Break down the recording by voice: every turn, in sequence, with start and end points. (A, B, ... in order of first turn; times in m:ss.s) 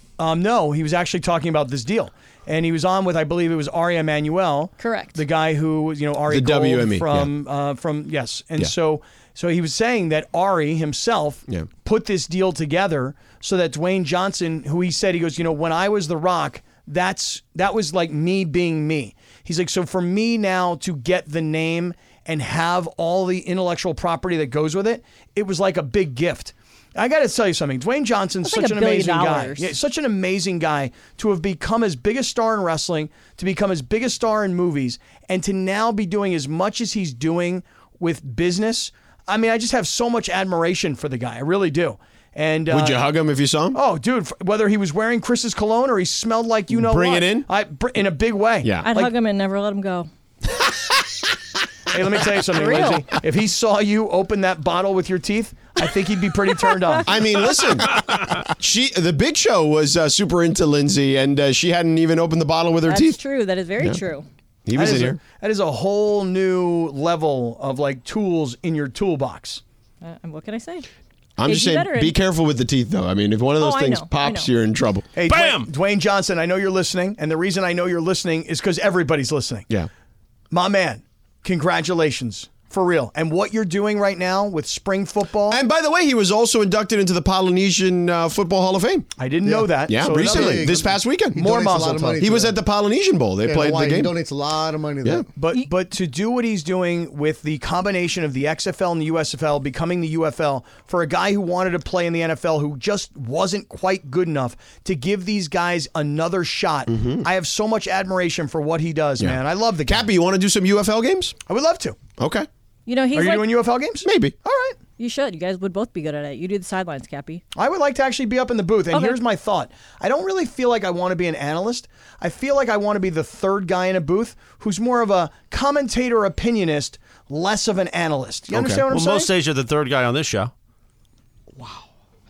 0:00.2-0:43.1 A
0:04.8-0:05.2 B
0:06.3-0:07.3 C
0:28.4-0:29.7 B
0:42.7-0:43.8 C
0:43.7-0:49.1 A
0:46.7-0:47.5 C
0:48.6-0:48.9 C
0:48.8-0:50.1 B
0:51.9-0:57.1 A
0:52.5-0:53.1 B
0:57.1-1:03.2 C
1:02.8-1:04.3 B
1:04.6-1:05.2 C
1:04.8-1:09.6 A
1:10.0-1:10.9 B
1:11.4-1:15.1 C
1:11.4-1:12.2 B
1:13.6-1:14.5 B
1:15.2-1:19.7 A
1:15.3-1:15.7 D
1:20.5-1:25.6 A
1:25.5-1:29.1 C
1:29.2-1:32.2 A
1:29.4-1:32.7 E
1:29.9-1:31.4 C
1:32.2-1:34.1 C
1:33.4-1:35.2 E
1:35.4-1:50.1 A
1:46.9-1:47.3 C
1:49.2-1:51.4 C
1:51.5-1:52.0 A
1:52.2-1:52.5 C
1:52.9-1:53.5 B
1:53.1-1:54.8 A
1:54.0-1:54.4 C
1:55.0-1:57.4 B
1:57.6-2:09.3 A
1:58.9-1:59.2 B
2:08.5-2:08.8 C
2:08.9-2:10.5 D